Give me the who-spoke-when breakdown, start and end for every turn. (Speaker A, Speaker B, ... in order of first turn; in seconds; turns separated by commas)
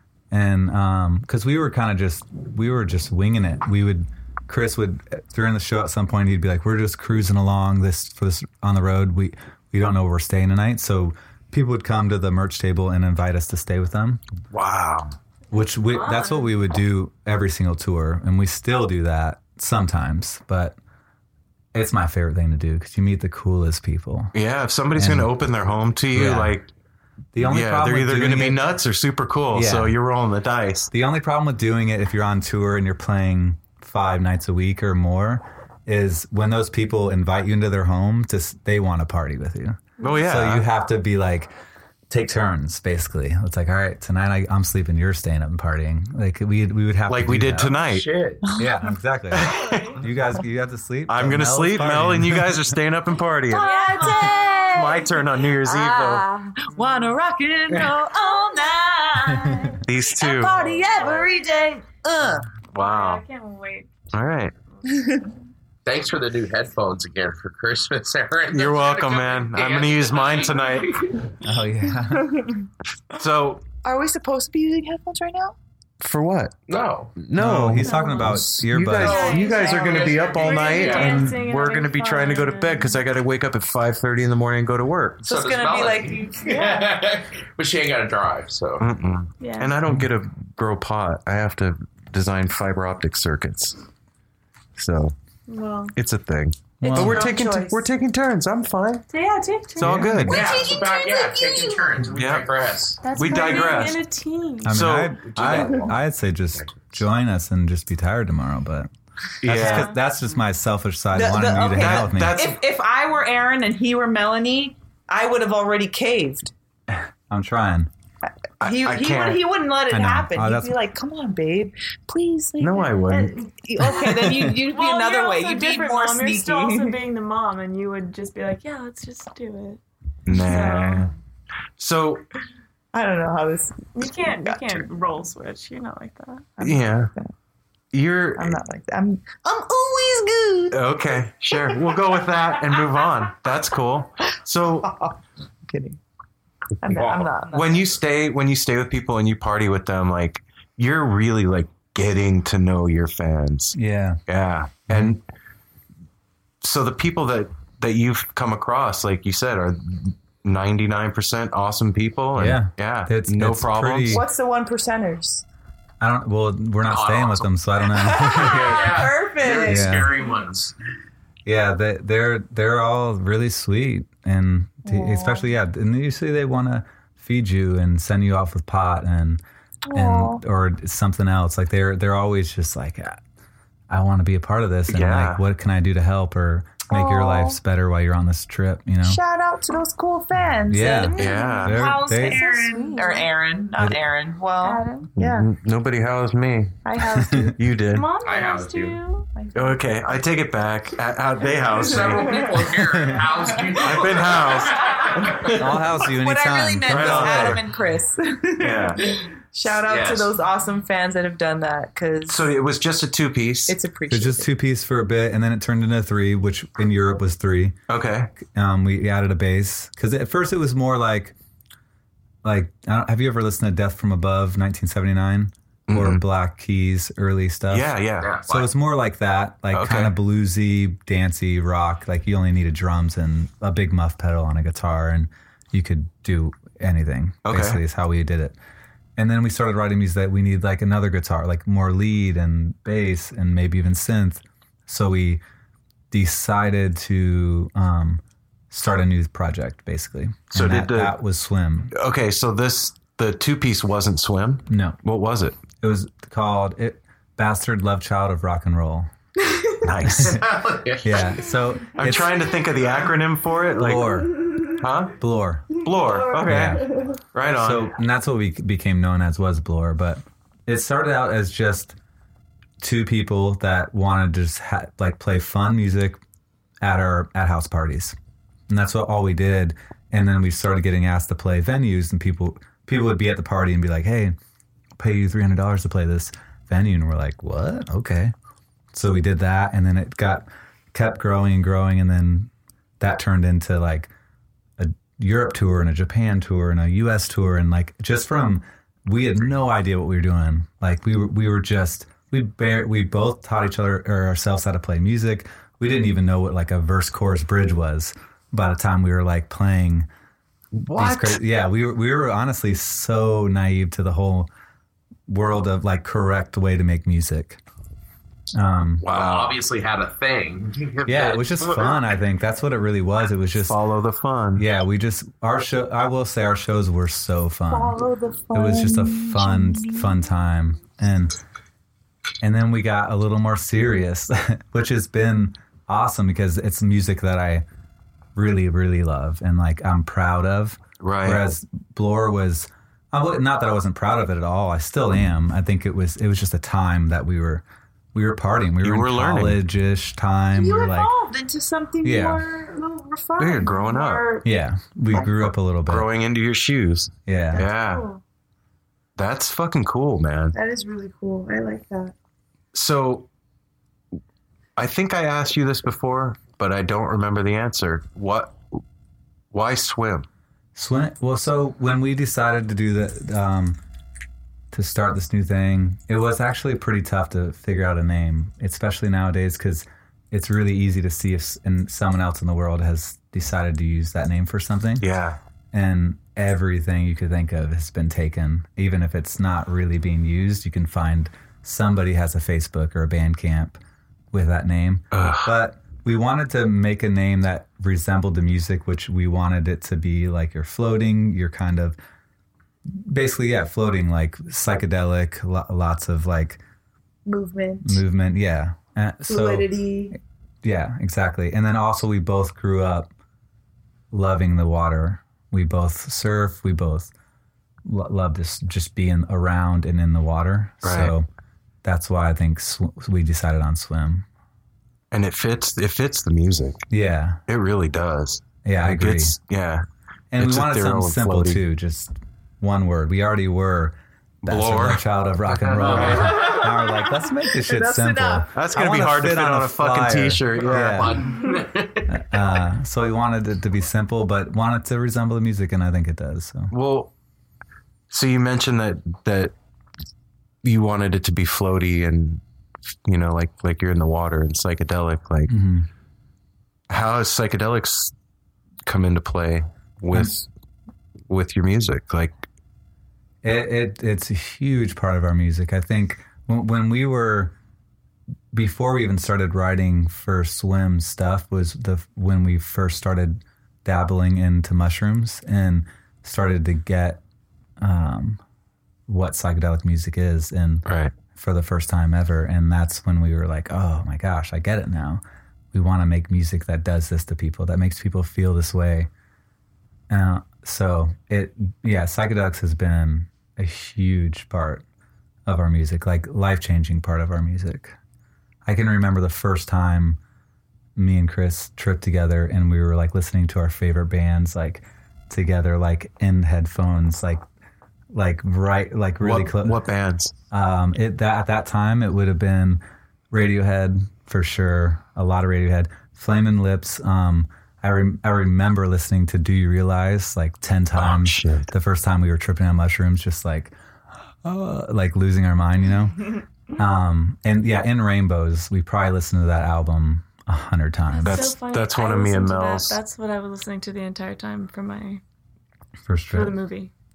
Speaker A: 0.3-14.2, Speaker B: 14.5-15.2, Speaker A: 15.5-20.8, Speaker C: 15.8-16.5, Speaker A: 21.7-24.3, Speaker B: 24.3-26.7, Speaker A: 24.9-25.3, Speaker A: 26.1-26.6, Speaker A: 27.3-28.6, Speaker B: 27.4-30.9, Speaker A: 29.5-29.9, Speaker A: 30.9-41.5, Speaker B: 40.0-40.6, Speaker A: 42.1-47.8, Speaker B: 47.1-48.1, Speaker D: 47.8-48.4, Speaker A: 48.6-52.8, Speaker B: 49.3-49.8, Speaker C: 49.5-50.0, Speaker B: 51.1-53.7, Speaker E: 53.5-62.5, Speaker C: 53.5-54.3, Speaker B: 54.7-56.2, Speaker C: 58.1-59.7, Speaker B: 59.8-60.6, Speaker C: 60.6-61.4, Speaker B: 62.7-63.2, Speaker C: 62.8-63.9, Speaker B: 64.1-64.5, Speaker E: 64.9-65.3, Speaker D: 65.8-71.2, Speaker B: 68.5-71.1, Speaker A: 71.4-72.4, Speaker B: 73.1-73.6, Speaker E: 73.8-75.6, Speaker B: 76.0-76.6, Speaker D: 76.7-77.2, Speaker B: 77.2-77.9, Speaker A: 77.3-79.2, Speaker C: 77.8-78.5, Speaker E: 78.0-78.4, Speaker B: 78.5-85.2, Speaker D: 78.9-81.3, Speaker C: 79.0-83.0, Speaker D: 85.2-88.9, Speaker E: 85.2-86.9, Speaker B: 88.8-93.8, Speaker C: 89.4-89.7, Speaker B: 94.8-95.2, Speaker C: 95.5-95.9, Speaker B: 96.0-99.0, Speaker A: 96.8-97.3, Speaker E: 96.8-97.8, Speaker C: 99.1-100.5, Speaker B: 99.8-100.4, Speaker A: 99.8-100.4, Speaker E: 100.3-101.8, Speaker D: 100.3-103.0, Speaker B: 102.1-102.5, Speaker B: 103.0-104.0, Speaker C: 103.0-104.8, Speaker E: 103.3-103.6, Speaker A: 104.6-108.9, Speaker B: 104.7-105.6, Speaker D: 105.3-106.0, Speaker B: 109.4-109.9, Speaker A: 109.5-112.4, Speaker C: 109.6-110.0, Speaker E: 111.1-116.5, Speaker B: 111.8-112.6, Speaker A: 116.9-117.9, Speaker E: 118.3-127.0, Speaker B: 118.6-119.4, Speaker A: 119.9-120.8, Speaker B: 122.6-123.3, Speaker A: 124.0-124.5, Speaker C: 124.7-129.8, Speaker B: 130.3-131.1, Speaker C: 130.4-131.1, Speaker E: 130.5-131.1, Speaker B: 131.8-132.2, Speaker E: 132.9-134.8, Speaker C: 133.9-136.5, Speaker E: 136.6-137.3, Speaker B: 136.6-137.1, Speaker B: 137.9-138.6, Speaker E: 138.4-140.8, Speaker B: 140.7-144.9, Speaker E: 142.7-143.0, Speaker E: 144.9-145.1, Speaker E: 145.7-146.0, Speaker D: 146.8-147.3, Speaker E: 146.8-148.0, Speaker B: 147.5-153.8, Speaker A: 153.8-154.2, Speaker B: 154.3-155.2, Speaker A: 154.9-155.2, Speaker B: 156.6-164.2, Speaker A: 162.4-164.3, Speaker E: 164.1-165.4, Speaker A: 166.0-168.8, Speaker D: 166.8-167.5, Speaker E: 167.9-170.3, Speaker D: 168.1-170.7, Speaker A: 169.6-170.1, Speaker A: 171.4-183.2, Speaker E: 174.9-175.4, Speaker E: 179.9-180.4, Speaker A: 183.9-189.2, Speaker B: 184.9-185.4, Speaker E: 186.9-187.6, Speaker E: 189.0-195.5, Speaker A: 190.7-192.4, Speaker C: 191.0-193.3, Speaker B: 191.2-191.8, Speaker B: 195.2-196.8, Speaker E: 196.8-197.6, Speaker A: 197.0-197.6, Speaker B: 197.6-198.1, Speaker C: 197.9-199.3, Speaker D: 198.2-199.0, Speaker E: 199.3-200.2, Speaker B: 199.6-202.5, Speaker D: 201.7-205.5, Speaker E: 202.1-203.8, Speaker B: 203.8-205.6, Speaker A: 205.5-207.6, Speaker E: 206.1-212.4, Speaker B: 206.9-207.6, Speaker B: 208.6-209.0, Speaker D: 209.7-210.3, Speaker B: 212.3-213.8, Speaker E: 213.7-214.5, Speaker A: 214.1-217.8, Speaker B: 217.9-218.3, Speaker A: 218.4-221.3, Speaker A: 222.4-238.6, Speaker B: 225.9-226.2, Speaker B: 227.7-228.3, Speaker D: 228.2-228.7, Speaker B: 229.7-230.2, Speaker B: 237.4-237.8, Speaker A: 239.2-245.4, Speaker A: 246.1-251.9, Speaker B: 250.5-251.2, Speaker B: 251.9-255.6, Speaker A: 254.7-255.0, Speaker A: 255.8-259.1, Speaker B: 259.8-260.6, Speaker A: 260.2-260.5, Speaker D: 260.2-261.2, Speaker A: 261.0-262.4, Speaker B: 261.9-265.1, Speaker A: 263.8-265.8, Speaker B: 265.8-267.9, Speaker A: 266.5-266.9, Speaker A: 267.4-272.0, Speaker A: 272.8-276.2, Speaker A: 276.8-278.2, Speaker A: 278.7-284.4, Speaker A: 285.0-288.3, Speaker A: 288.9-294.1, Speaker A: 294.8-310.1, Speaker B: 310.7-311.4, Speaker A: 310.9-314.5, Speaker A: 315.3-317.6, Speaker A: 318.5-319.0, Speaker B: 319.0-319.5, Speaker D: 319.1-322.0, Speaker A: 321.1-323.8, Speaker B: 323.6-324.6, Speaker A: 324.6-328.0, Speaker E: 327.7-330.2, Speaker A: 328.5-331.4, Speaker A: 332.4-337.6, Speaker A: 338.4-351.1, Speaker B: 341.0-341.4, Speaker B: 348.8-349.6, Speaker E: 350.6-354.5, Speaker A: 352.0-352.4, Speaker B: 353.4-354.2, Speaker A: 354.4-356.1, Speaker B: 355.9-358.1, Speaker A: 357.3-357.7, Speaker E: 357.6-358.2, Speaker B: 359.2-360.6, Speaker E: 360.5-362.1, Speaker B: 362.7-363.3, Speaker B: 364.8-368.8, Speaker B: 369.5-370.3, Speaker A: 370.8-373.8, Speaker A: 374.7-385.1, Speaker B: 385.0-385.4, Speaker A: 385.7-393.8, Speaker A: 394.3-402.0, Speaker B: 395.1-395.5, Speaker A: 402.9-406.6, Speaker E: 407.3-408.0, Speaker A: 407.8-413.1, Speaker E: 409.3-410.1, Speaker A: 414.1-417.1, Speaker A: 417.9-421.3, Speaker B: 420.8-421.1, Speaker A: 421.8-424.3, Speaker B: 425.1-426.8, Speaker A: 426.9-427.4, Speaker B: 427.5-429.9, Speaker A: 428.6-429.4, Speaker A: 430.3-441.3, Speaker B: 430.4-431.6, Speaker B: 434.4-435.0, Speaker D: 435.5-436.6, Speaker B: 435.8-436.3, Speaker E: 436.3-438.5, Speaker B: 438.5-441.2, Speaker D: 440.5-442.1, Speaker A: 442.1-446.7, Speaker B: 446.7-447.1, Speaker B: 448.1-449.5, Speaker B: 450.6-452.4, Speaker B: 453.1-455.5, Speaker A: 455.5-455.9, Speaker B: 456.9-458.1, Speaker B: 458.9-460.5, Speaker B: 461.3-462.4, Speaker A: 463.4-467.5, Speaker A: 468.5-477.2, Speaker A: 477.8-478.4, Speaker A: 479.1-485.2, Speaker B: 480.9-481.1, Speaker A: 485.7-489.1, Speaker A: 490.1-494.8, Speaker A: 495.5-498.0, Speaker A: 498.7-500.2, Speaker A: 501.0-507.4, Speaker A: 508.1-509.8, Speaker B: 509.2-510.3, Speaker A: 510.5-523.7, Speaker B: 521.0-521.7, Speaker A: 524.4-531.5, Speaker C: 531.1-535.2, Speaker B: 531.2-533.0, Speaker A: 536.1-536.6, Speaker C: 536.3-536.9